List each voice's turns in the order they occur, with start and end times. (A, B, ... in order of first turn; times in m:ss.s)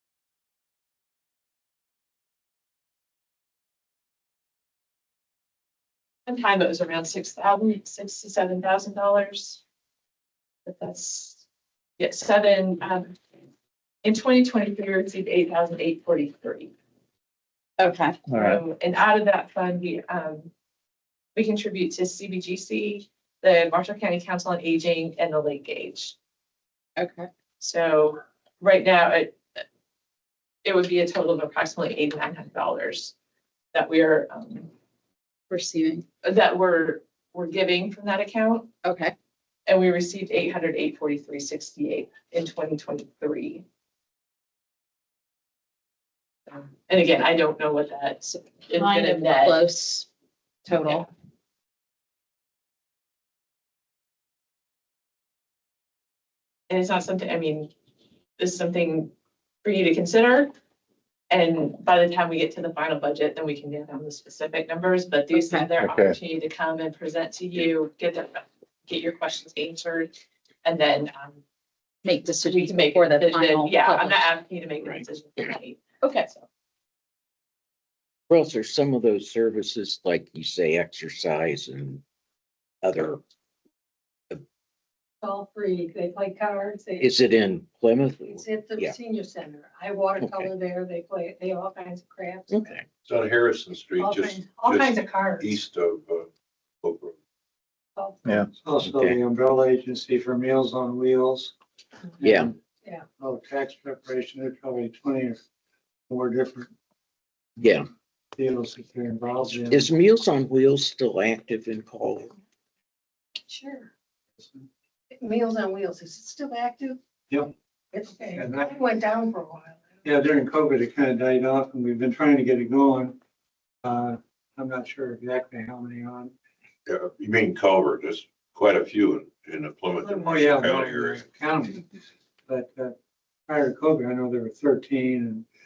0:06.2-0:09.6 A
0:10.6-0:11.4 A
0:12.0-0:13.2 A
0:14.0-0:16.7 A
0:17.8-0:18.2 B
0:18.3-0:20.5 A
0:21.3-0:26.2 A
0:27.0-0:27.3 B
0:27.6-0:29.6 A
0:30.6-0:33.1 A
0:33.7-0:34.7 A
0:35.5-0:36.0 B
0:36.2-0:38.7 A
0:38.8-0:39.1 B
0:39.7-0:43.6 A
0:46.5-0:49.6 A
0:48.7-0:50.1 B
0:50.6-0:51.0 B
0:56.7-0:57.7 A
0:58.4-0:59.1 A
0:59.6-1:00.5 A
1:01.3-1:10.1 A
1:05.3-1:05.7 B
1:10.6-1:11.4 A
1:12.0-1:14.2 B
1:12.4-1:16.4 A
1:18.3-1:22.0 C
1:22.8-1:23.2 C
1:25.2-1:27.2 D
1:27.0-1:29.0 C
1:28.3-1:32.7 D
1:30.2-1:30.5 C
1:32.5-1:32.8 C
1:33.0-1:36.3 E
1:34.0-1:35.5 D
1:36.8-1:37.1 E
1:38.0-1:38.2 D
1:38.5-1:41.5 F
1:38.8-1:39.2 C
1:42.2-1:42.5 C
1:42.2-1:42.5 F
1:43.2-1:45.4 F
1:46.1-1:46.7 F
1:47.6-1:47.9 C
1:48.4-1:49.9 F
1:49.4-1:52.3 C
1:53.5-1:53.9 D
1:54.4-1:54.7 F
1:55.1-1:57.0 D
1:57.9-1:59.8 D
1:58.3-1:58.8 F
2:00.0-2:03.2 F
2:03.8-2:06.3 F
2:06.9-2:11.2 E
2:10.0-2:11.9 F
2:12.5-2:12.9 F
2:13.5-2:15.4 F